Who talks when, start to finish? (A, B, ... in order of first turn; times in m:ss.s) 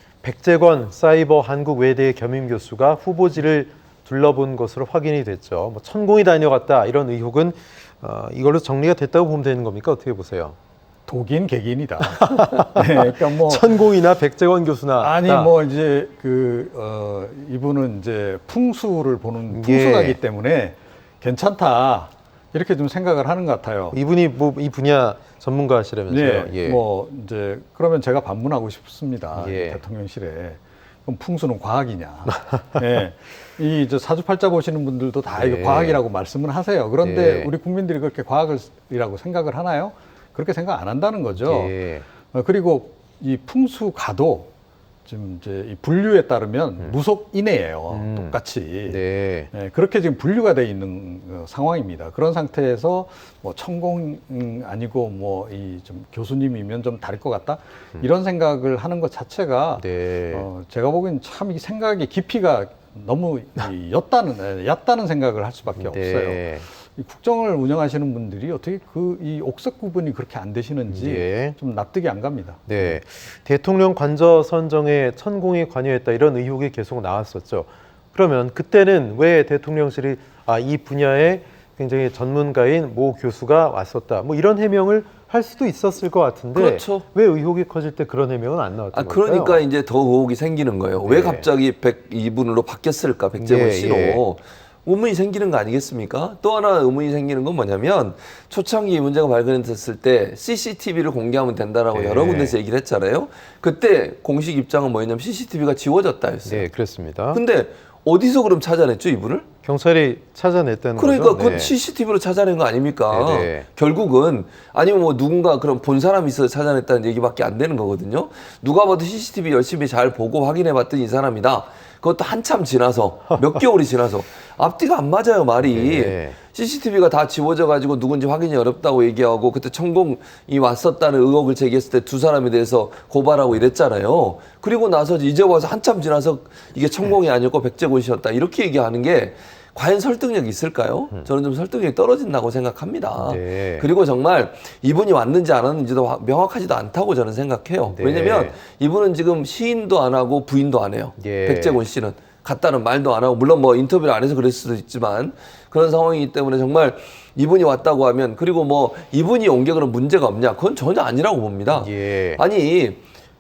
0:00.2-0:10.6 A
0:11.1-0:13.8 B
0:12.1-0:15.5 A
0:15.0-0:24.0 B
0:19.5-0:20.2 A
0:23.9-0:26.8 A
0:26.1-0:41.8 B
0:29.4-0:29.8 A
0:35.3-0:36.0 A
0:37.0-0:37.5 A
0:41.4-0:42.0 A
0:42.3-0:44.5 B
0:45.0-1:12.8 B
0:47.9-0:48.3 A
0:48.9-0:49.5 A
0:59.8-1:00.5 A
1:05.8-1:06.6 A
1:10.9-1:11.6 A
1:12.7-1:29.6 A
1:26.5-1:27.0 C
1:28.9-1:46.7 C
1:31.0-1:31.4 A
1:33.4-1:34.2 A
1:41.9-1:42.6 A
1:46.4-1:47.4 A
1:47.3-1:49.5 C
1:49.6-1:51.7 A
1:51.0-2:43.0 C
1:53.1-1:53.7 A
2:05.6-2:06.4 A
2:23.2-2:23.9 A
2:27.9-2:28.6 A
2:31.2-2:31.8 A
2:41.7-2:42.4 A